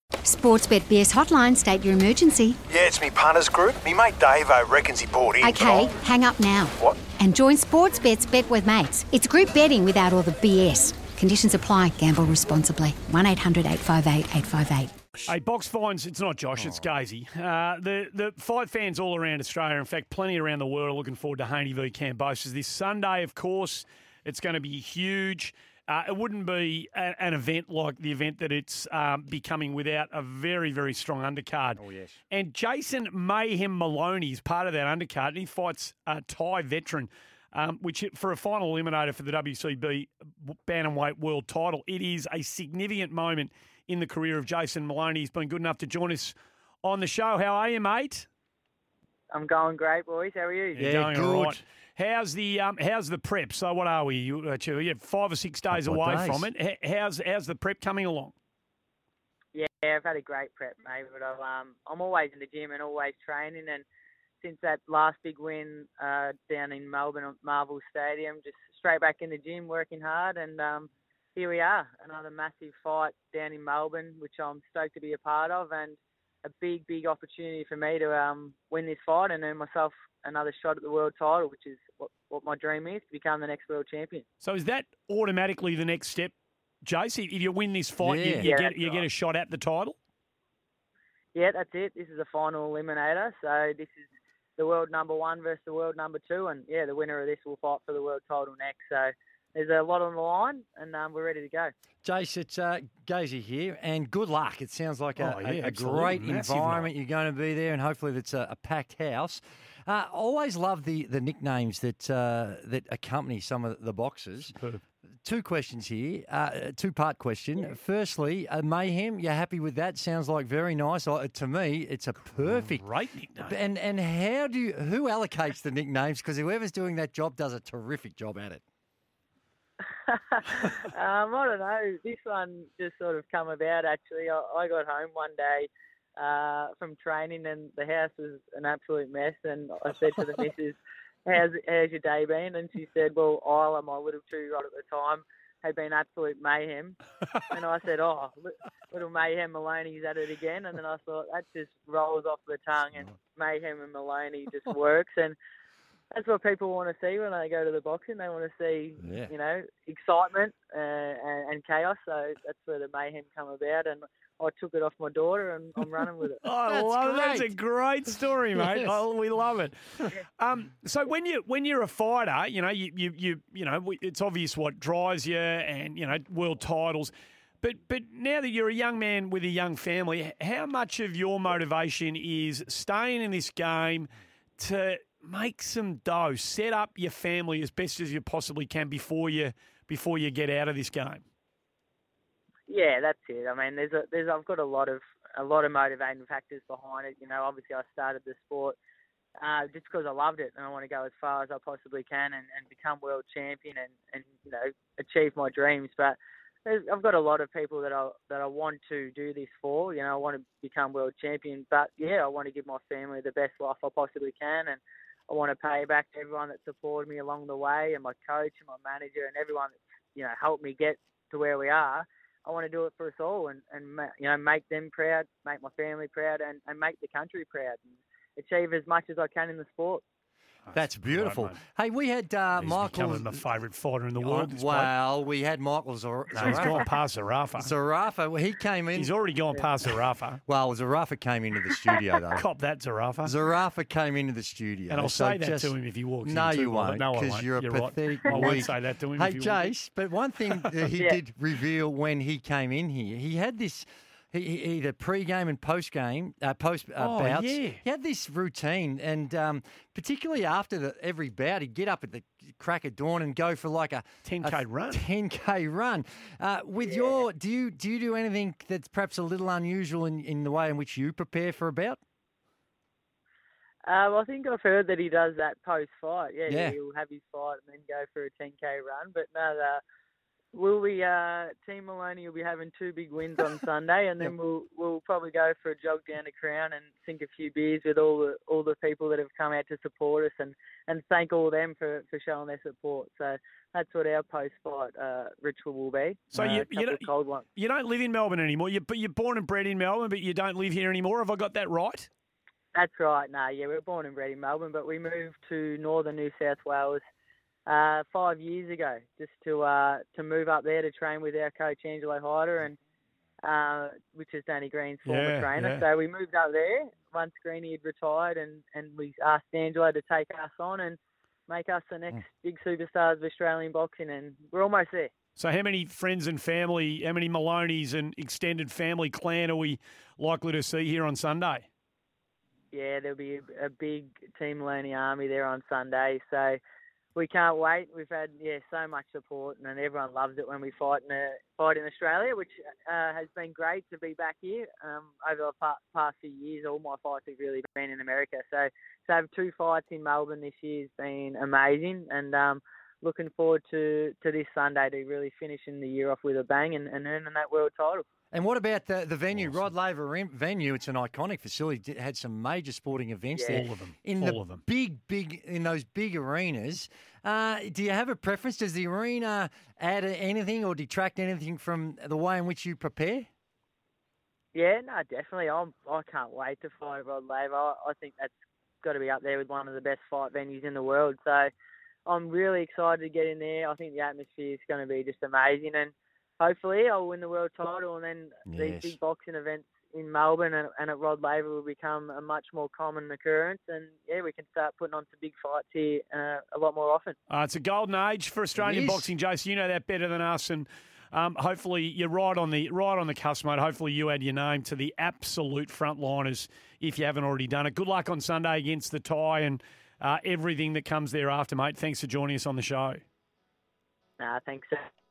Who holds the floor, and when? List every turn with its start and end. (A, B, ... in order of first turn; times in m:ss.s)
0:00.2-0:02.6 A
0:02.7-0:05.9 B
0:05.4-0:15.0 A
0:15.3-0:48.3 C
0:16.6-0:16.9 D
0:31.8-0:32.2 D
0:49.3-0:50.8 E
0:50.8-0:58.3 C
0:50.8-0:51.6 D
0:55.7-0:56.5 D
0:59.5-1:03.8 E
1:04.4-1:24.2 E
1:24.4-1:30.0 C
1:28.0-1:28.5 D
1:28.4-1:29.1 E
1:31.3-1:41.7 E
1:42.0-1:54.5 D
1:45.2-1:46.9 C
1:54.5-1:54.8 C
1:55.2-2:02.8 D
2:02.4-2:03.6 C
2:03.4-2:08.6 D
2:10.1-2:35.4 E
2:36.1-2:46.4 E
2:39.0-2:39.3 D
2:46.4-3:11.2 C
2:46.6-2:47.5 D
2:48.5-2:49.0 D
3:12.7-3:18.8 E
3:19.4-3:50.0 E
3:50.7-3:51.6 C
3:50.7-3:53.4 D
3:52.5-3:54.9 C
3:54.2-3:56.9 D
3:56.3-3:57.7 C
3:57.6-3:59.1 D
3:59.0-4:00.4 C
4:00.5-4:02.5 D
4:02.3-4:03.3 C
4:03.2-4:32.0 D
4:04.9-4:09.7 C
4:17.0-4:17.8 C
4:24.2-4:25.0 C
4:26.8-4:27.2 E
4:33.9-4:39.8 E
4:36.5-4:36.8 D
4:40.5-4:57.5 E
4:56.3-5:02.1 C
5:02.7-5:07.0 E
5:07.7-5:12.8 E
5:13.4-5:25.1 E
5:15.0-5:15.8 C
5:25.4-5:31.6 C
5:32.7-5:36.6 E
5:37.1-5:58.0 E
5:58.3-6:13.3 D
5:59.3-5:59.7 C
6:03.3-6:03.6 E
6:03.5-6:04.6 C
6:14.5-6:21.5 E
6:22.0-6:37.2 E
6:28.5-6:29.0 D
6:37.3-6:53.0 C
6:38.6-6:39.1 D
6:54.2-6:54.8 E